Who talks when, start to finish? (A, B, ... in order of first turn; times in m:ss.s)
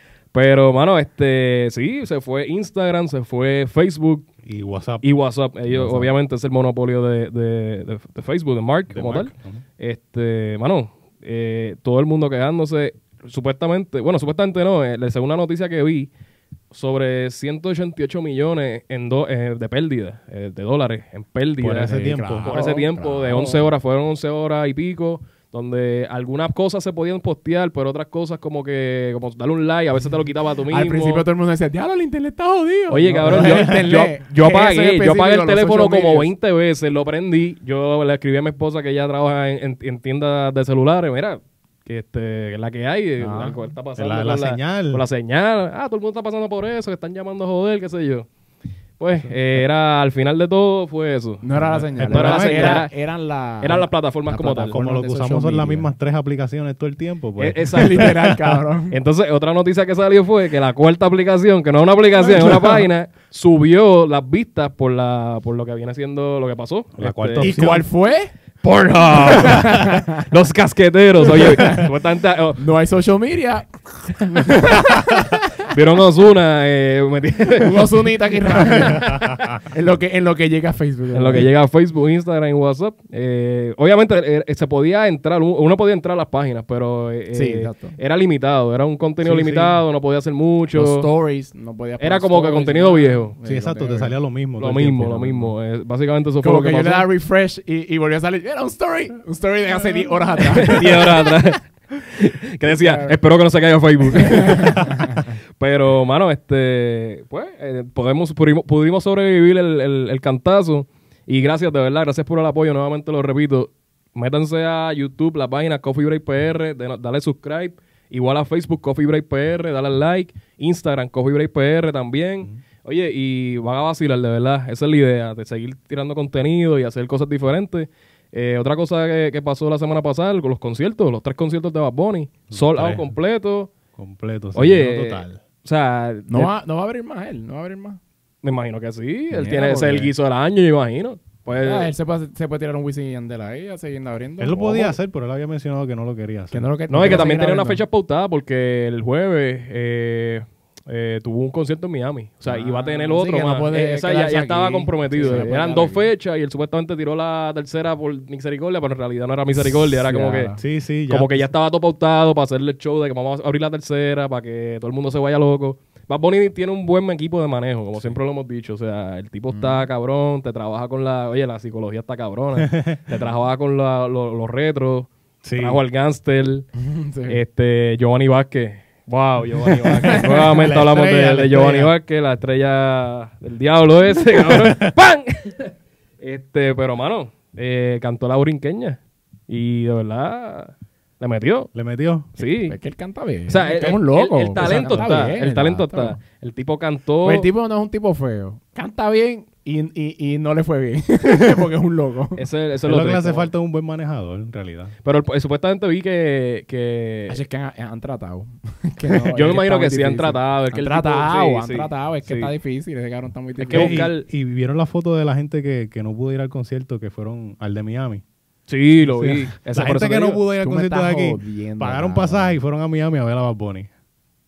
0:00.3-0:04.2 A
0:04.4-0:05.0 B
0:05.0-0:16.1 A
0:05.8-0:06.1 C
0:08.9-0:09.6 B
0:16.7-0:31.2 A
0:21.6-0:22.6 B
0:21.8-0:23.7 C
0:30.7-0:36.3 C
0:32.9-0:48.3 A
0:33.2-0:33.8 B
0:43.2-0:43.6 C
0:44.0-0:45.0 B
0:49.0-0:51.5 A
0:51.4-0:55.9 C
0:51.6-0:52.8 B
0:52.0-0:52.9 A
0:53.6-0:54.8 A
0:54.7-0:58.6 B
0:57.4-0:58.1 A
0:57.7-0:59.0 C
0:58.9-1:07.7 A
1:02.2-1:02.8 C
1:07.0-1:07.8 B
1:07.4-1:08.3 C
1:08.6-1:12.6 A
1:09.2-1:10.3 C
1:11.2-1:11.9 C
1:12.6-1:15.6 C
1:15.6-1:18.1 A
1:17.6-1:21.5 C
1:18.6-1:19.5 A
1:18.7-1:19.5 B
1:21.1-1:31.1 A
1:27.3-1:28.0 C
1:29.2-1:29.8 C
1:30.7-1:34.1 C
1:32.0-1:33.3 A
1:33.4-1:35.5 B
1:34.6-1:37.1 A
1:36.4-1:41.1 C
1:40.5-2:13.7 A
1:42.7-1:43.2 C
1:44.2-1:45.3 C
2:12.5-2:13.1 B
2:14.0-2:15.4 B
2:14.5-2:16.5 A
2:16.3-2:18.0 C
2:18.4-2:21.9 A
2:19.3-2:20.1 C
2:21.6-2:25.0 C
2:24.4-2:27.2 B
2:26.5-2:27.8 C
2:26.9-2:40.5 A
2:32.4-2:36.1 C
2:39.6-2:40.6 C
2:40.6-2:41.5 B
2:41.1-2:56.7 A
2:49.5-2:49.8 C
2:52.6-2:53.0 B
2:55.4-2:55.8 B
2:56.8-2:57.4 C
2:57.3-3:09.0 A
2:59.6-3:01.9 B
3:04.4-3:04.9 B
3:09.5-3:11.7 A
3:11.7-3:12.3 B
3:12.4-3:12.7 A
3:12.6-3:16.2 C
3:13.5-3:17.5 A
3:14.6-3:15.2 B
3:17.2-3:22.4 C
3:22.4-3:23.5 A
3:22.8-3:24.9 B
3:25.0-3:27.4 A
3:27.3-3:34.1 C
3:29.3-3:32.5 A
3:33.6-3:34.2 A
3:33.7-3:38.2 B
3:38.7-3:40.4 A
3:39.6-3:43.9 B
3:40.6-3:42.5 C